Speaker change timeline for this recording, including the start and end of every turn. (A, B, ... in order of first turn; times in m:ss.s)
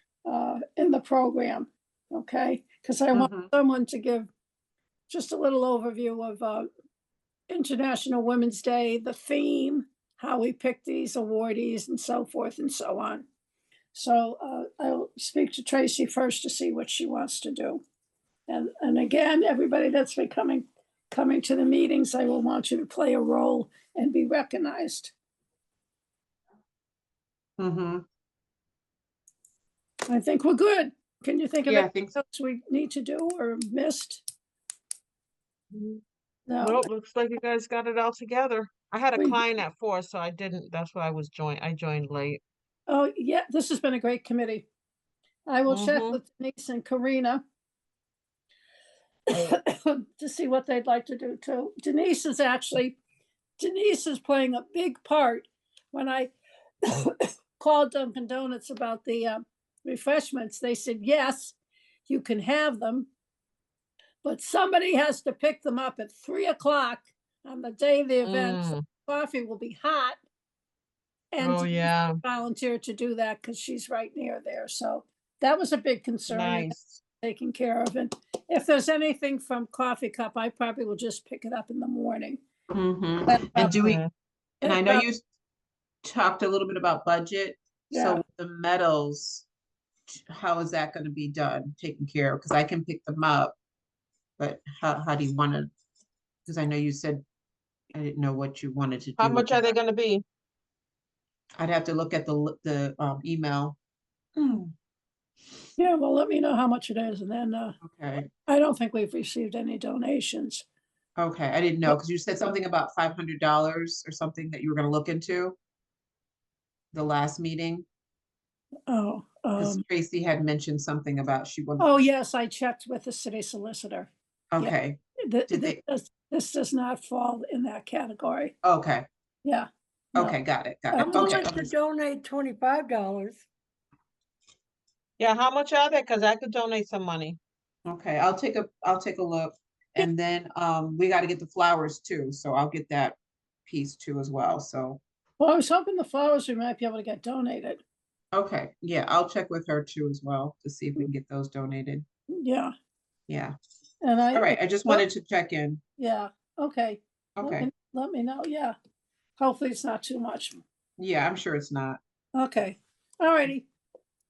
0:00.2-0:04.3 A
0:03.1-0:03.5 B
0:05.1-0:06.7 A
0:07.5-0:13.2 A
0:13.9-0:17.8 A
0:18.5-0:25.1 A
0:27.6-0:28.0 B
0:30.1-0:34.2 A
0:31.7-0:32.2 B
0:35.7-0:36.0 C
0:36.5-0:36.9 A
0:36.6-0:42.4 C
0:39.2-0:39.4 A
0:42.9-0:44.7 A
0:45.5-0:47.4 A
0:45.7-0:46.2 C
0:49.3-0:53.0 A
0:53.6-0:56.3 A
0:56.8-1:01.6 A
1:02.1-1:03.1 A
1:04.2-1:10.2 A
1:08.2-1:08.8 C
1:11.3-1:22.4 A
1:11.4-1:12.2 C
1:16.3-1:17.0 C
1:22.7-1:24.0 B
1:23.3-1:23.7 A
1:23.6-1:24.1 C
1:24.6-1:25.1 A
1:24.6-1:25.2 B
1:26.0-1:29.5 B
1:27.9-1:28.2 A
1:30.1-1:33.6 B
1:34.4-1:35.7 B
1:36.5-1:37.2 B
1:37.9-1:39.7 B
1:39.2-1:40.2 C
1:41.6-1:43.8 B
1:44.4-1:44.7 B
1:45.8-1:47.8 A
1:47.8-1:48.3 B
1:48.5-1:50.6 A
1:51.2-1:55.6 B
1:56.9-1:57.8 B
1:58.9-1:59.8 A
1:59.6-2:02.1 B
2:01.8-2:08.5 A
2:04.5-2:05.8 B
2:08.6-2:09.1 B
2:09.4-2:10.4 A
2:10.2-2:11.7 B
2:10.9-2:11.4 A
2:11.0-2:13.4 D
2:15.2-2:17.4 C
2:17.9-2:23.2 B
2:23.7-2:25.0 B
2:25.4-2:27.8 A
2:28.3-2:32.0 B
2:32.4-2:32.7 A
2:33.3-2:33.6 B
2:34.0-2:35.0 A
2:34.3-2:35.8 B
2:36.0-2:38.8 A
2:37.4-2:37.7 B
2:39.4-2:40.6 A
2:41.0-2:42.0 B
2:42.4-2:43.7 A